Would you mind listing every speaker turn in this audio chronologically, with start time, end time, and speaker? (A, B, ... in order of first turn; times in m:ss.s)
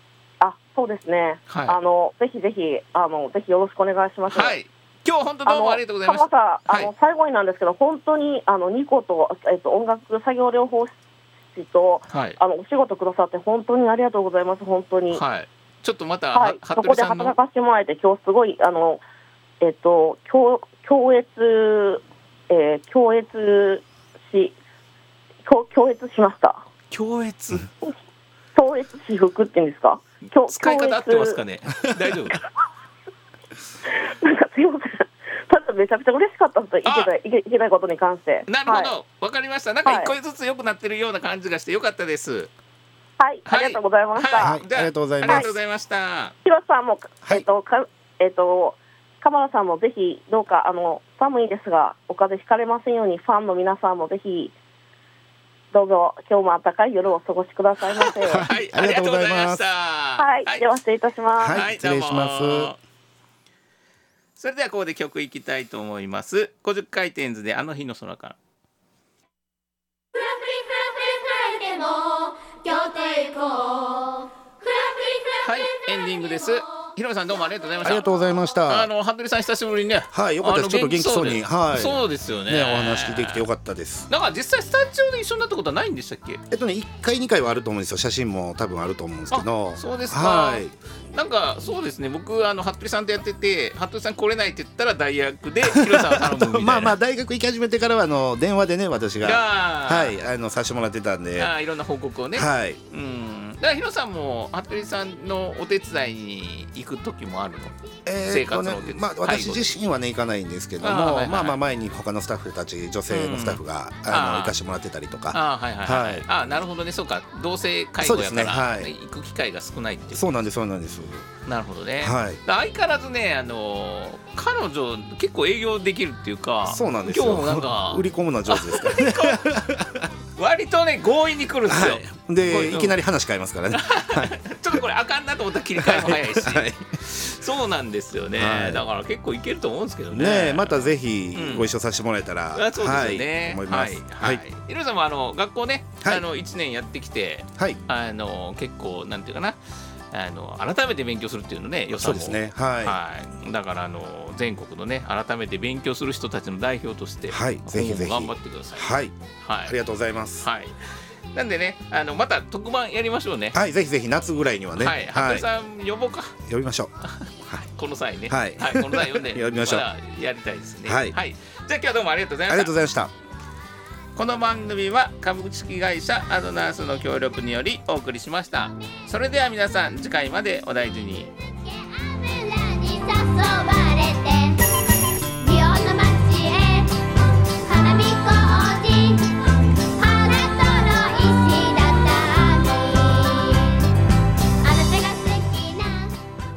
0:00.4-0:04.6 A
0:01.5-0:01.8 B
0:04.3-0:06.9 B
0:05.5-0:11.0 A
0:11.6-0:15.2 A
0:12.1-0:12.4 B
0:15.1-0:17.4 B
0:16.3-0:19.0 A
0:19.6-0:24.6 A
0:25.4-0:26.6 A
0:26.9-0:27.7 B
0:28.6-0:31.4 A
0:30.5-0:32.4 B
0:33.9-0:38.9 A
0:36.8-0:37.1 B
0:38.5-0:42.5 B
0:39.8-0:40.1 A
0:43.2-0:44.6 A
0:43.5-0:46.4 B
0:44.4-0:45.5 C
0:46.4-0:54.6 A
0:55.7-0:58.5 A
0:58.2-0:59.6 C
0:58.4-1:00.6 B
1:00.2-1:01.6 A
1:01.4-1:02.7 C
1:01.5-1:02.8 B
1:04.4-1:08.4 B
1:10.1-1:16.7 D
1:15.4-1:18.1 B
1:17.8-1:18.9 C
1:18.7-1:23.4 B
1:20.1-1:24.1 C
1:24.1-1:26.4 B
1:26.5-1:30.7 C
1:29.3-1:37.0 B
1:35.6-1:41.5 C
1:39.2-1:40.2 B
1:41.4-1:47.7 B
1:42.3-1:42.8 C
1:48.1-1:56.3 C
1:48.3-1:49.6 B
1:50.8-1:51.6 B
1:53.1-1:54.6 B
1:55.3-2:00.3 B
1:58.0-1:58.9 C
2:00.1-2:01.3 C
2:01.5-2:09.4 B
2:02.0-2:02.4 C
2:06.7-2:10.1 C
2:10.4-2:13.0 B
2:11.7-2:14.8 C
2:13.7-2:21.7 B
2:15.8-2:16.8 C
2:18.3-2:18.8 C
2:20.1-2:24.4 C
2:22.6-2:29.6 B
2:27.6-2:27.8 C
2:30.1-2:38.9 B
2:32.0-2:33.0 C
2:37.3-2:40.5 C
2:39.4-2:39.8 B
2:40.4-2:43.6 B
2:43.5-2:45.5 C
2:44.8-2:46.4 B
2:46.4-2:46.9 C
2:47.0-2:52.7 B
2:48.3-2:49.9 C
2:50.8-2:51.2 C
2:52.5-2:53.1 C
2:54.2-3:01.3 B
3:01.4-3:04.6 D
3:05.4-3:09.4 D
3:10.0-3:13.9 D
3:14.6-3:16.2 D